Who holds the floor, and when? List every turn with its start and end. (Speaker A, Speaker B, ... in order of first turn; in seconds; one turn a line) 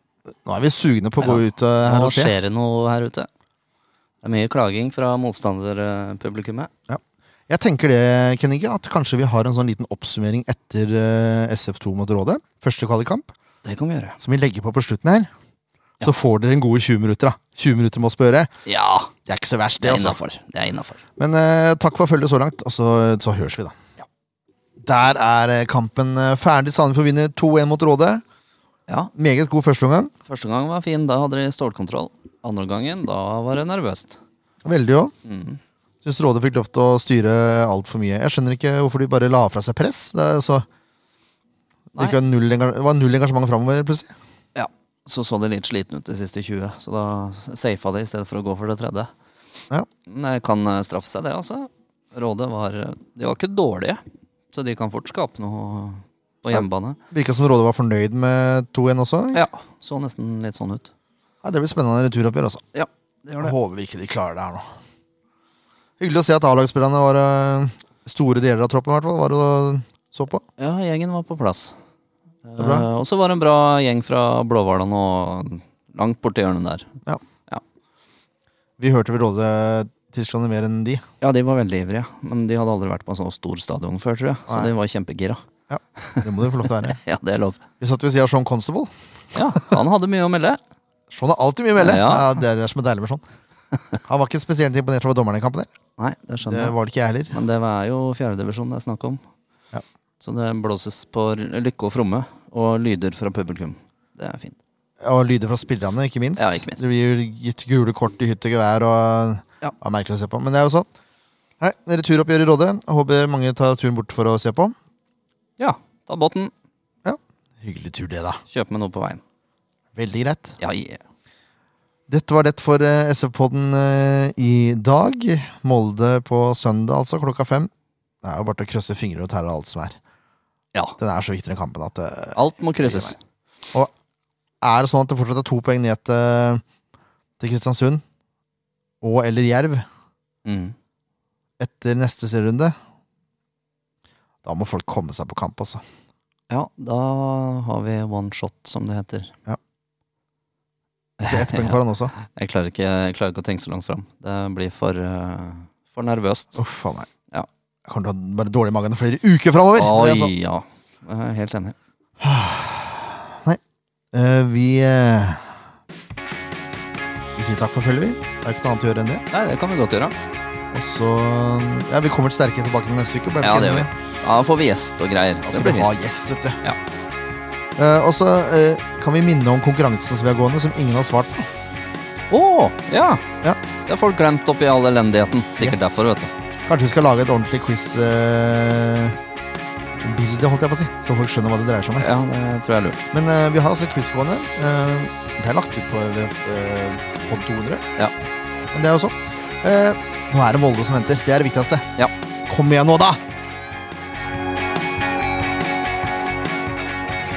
Speaker A: 0.4-2.3
Speaker B: 1.2-3.3
Speaker B: 4.2-6.7
Speaker A: 6.9-13.3
Speaker B: 13.6-14.2
Speaker A: 14.2-15.3
Speaker A: 16.0-18.5
Speaker B: 18.6-19.1
Speaker A: 19.3-20.2
Speaker B: 19.8-21.0
Speaker A: 21.2-23.8
Speaker A: 24.8-28.2
Speaker A: 29.1-30.1
Speaker B: 30.2-34.2
Speaker A: 34.6-35.1
Speaker B: 35.2-35.6
Speaker A: 36.0-40.6
Speaker A: 41.9-44.1
Speaker B: 44.5-49.1
Speaker B: 50.0-54.0
Speaker B: 54.5-57.0
Speaker A: 56.5-59.4
Speaker B: 59.3-60.9
Speaker A: 61.4-62.6
Speaker B: 62.7-63.5
Speaker A: 63.4-64.7
Speaker A: 66.0-70.4
Speaker B: 70.6-71.8
Speaker B: 72.5-76.9
Speaker A: 72.6-72.9
Speaker A: 78.8-81.0
Speaker B: 81.2-85.4
Speaker A: 85.7-87.0
Speaker B: 86.0-87.6
Speaker A: 87.8-88.9
Speaker B: 89.3-90.6
Speaker A: 91.1-93.2
Speaker B: 91.8-92.4
Speaker A: 94.0-95.7
Speaker B: 96.0-96.8
Speaker A: 96.5-97.3
Speaker B: 97.3-99.2
Speaker B: 100.2-104.6
Speaker A: 105.0-110.9
Speaker B: 106.4-106.8
Speaker A: 111.6-114.7
Speaker B: 115.6-116.5
Speaker A: 117.0-118.4
Speaker B: 118.5-119.2
Speaker A: 119.9-120.6
Speaker B: 120.6-121.0
Speaker A: 122.1-127.7
Speaker A: 128.2-130.0
Speaker A: 131.0-133.1
Speaker B: 132.3-133.2
Speaker A: 134.6-136.6
Speaker A: 137.4-138.0
Speaker A: 139.0-139.8
Speaker B: 140.4-140.7
Speaker A: 141.6-142.7
Speaker A: 144.4-145.8
Speaker B: 146.5-149.3
Speaker B: 151.2-156.6
Speaker A: 151.2-152.1
Speaker A: 156.6-157.1
Speaker A: 157.8-160.3
Speaker B: 159.7-161.8
Speaker A: 162.2-163.6
Speaker A: 164.1-165.5
Speaker A: 167.3-169.2
Speaker B: 169.3-170.2
Speaker A: 170.7-173.9
Speaker B: 173.4-175.9
Speaker A: 175.4-176.6
Speaker A: 177.8-181.5
Speaker B: 182.3-183.2
Speaker B: 183.8-186.3
Speaker A: 185.6-186.0
Speaker A: 186.7-189.2
Speaker A: 190.0-192.1
Speaker B: 191.9-193.0
Speaker A: 193.1-197.8
Speaker A: 198.7-201.9
Speaker A: 202.5-203.2